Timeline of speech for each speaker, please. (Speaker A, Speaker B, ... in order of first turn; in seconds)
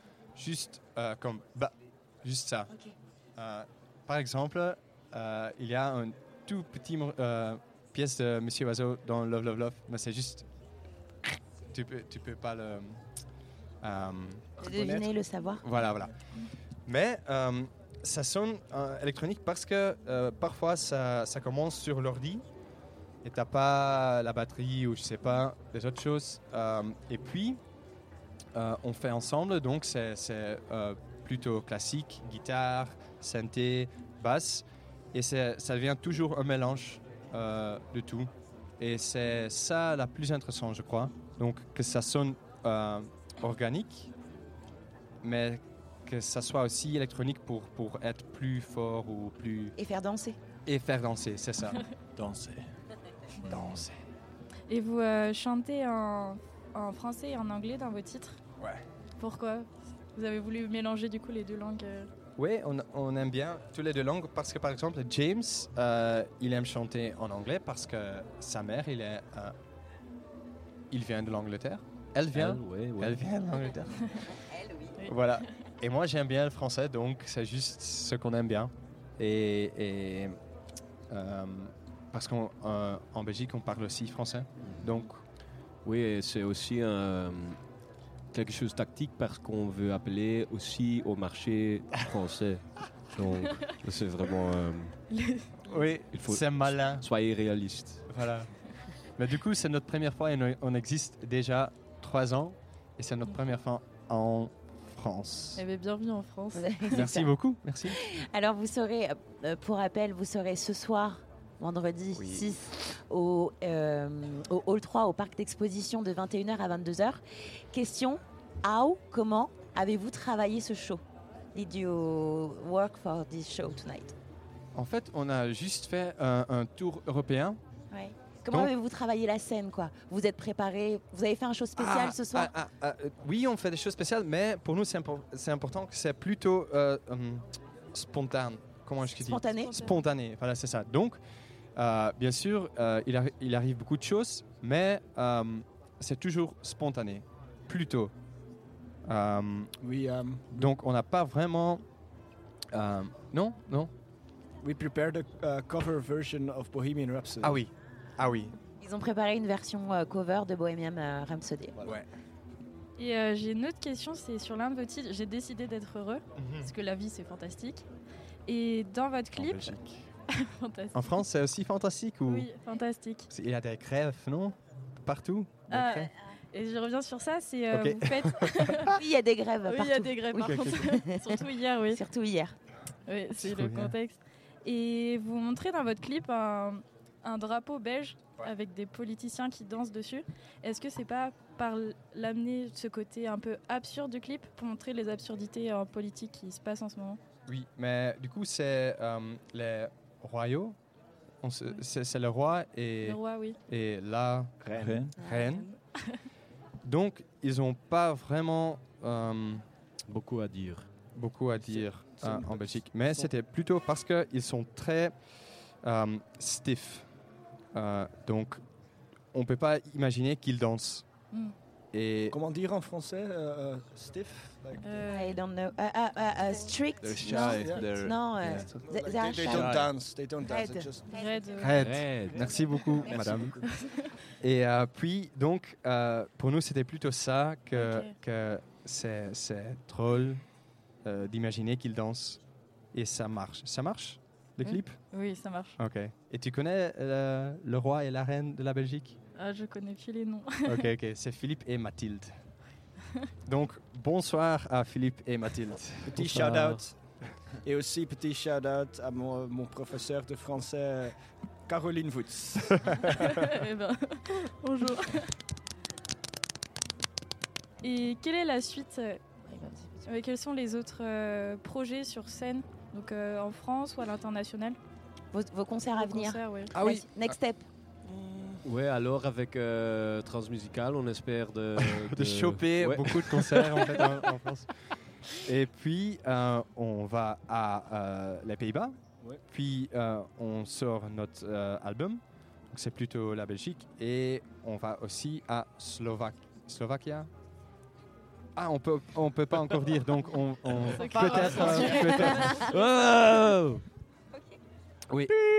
Speaker A: 0.4-2.7, 3.4-10.5, 11.7-13.0, 13.8-15.0, 15.6-16.1, 16.9-22.4, 23.2-27.6, 28.6-44.1, 45.2-49.8, 50.7-51.9, 53.4-54.0, 58.6-58.8, 62.4-69.6, 70.9-74.3, 75.1-80.4, 81.1-85.2, 95.7-97.0, 98.1-98.5, 99.2-105.6, 106.9-108.0, 112.2-112.5, 124.7-127.6, 131.8-141.2, 141.8-148.1, 149.1-149.7, 150.5-151.8, 152.7-153.9, 157.4-158.6, 166.4-166.7, 169.3-169.9, 170.9-172.5, 173.3-176.1, 177.7-179.0, 180.4-180.8, 183.4-183.9, 197.5-200.8, 201.4-205.7, 206.8-209.7, 211.2-215.2, 215.8-217.1, 217.8-218.6, 219.3-221.1, 221.9-222.4, 231.6-233.6, 234.4-240.4, 241.1-242.4, 242.9-245.0, 245.8-249.2, 250.7-252.4, 253.4-256.4, 276.7-277.4, 281.8-284.7, 285.4-289.0, 289.5-297.3, 298.6-302.7
Speaker B: 14.6-15.7, 49.8-50.4, 106.5-107.3, 107.9-117.2, 117.7-121.0, 121.5-124.2, 127.9-132.5, 139.2-139.8, 158.8-161.8, 178.9-181.4, 181.9-182.6, 205.2-205.8, 225.1-229.9, 230.4-231.4, 269.5-270.0, 275.3-277.7, 302.0-302.5
Speaker C: 14.7-15.0, 149.8-150.7, 154.6-157.6, 204.6-205.1, 211.5-213.3, 222.3-225.1, 227.3-228.1, 228.6-231.2, 232.2-233.8, 256.2-256.9, 257.6-261.1, 261.7-263.3, 278.1-278.6
Speaker D: 54.7-58.4, 59.2-62.1, 75.0-75.2, 95.1-95.6, 105.6-107.0, 139.6-140.0, 163.0-167.8, 168.5-169.8, 170.3-171.2, 172.3-173.3, 175.7-178.9, 179.6-182.0, 183.1-197.2, 203.0-203.6, 224.8-225.4, 231.1-232.0, 233.6-234.1, 237.7-238.2, 244.6-245.8, 249.4-250.9, 263.1-265.4, 267.8-269.2, 270.1-274.8, 275.9-276.7, 300.9-302.7
Speaker E: 72.3-73.2, 84.7-84.9, 85.8-87.6, 88.3-95.0, 96.1-98.0, 210.1-210.9, 227.0-228.2, 229.5-229.9, 231.8-232.5, 256.1-256.9, 278.6-284.1, 301.1-303.8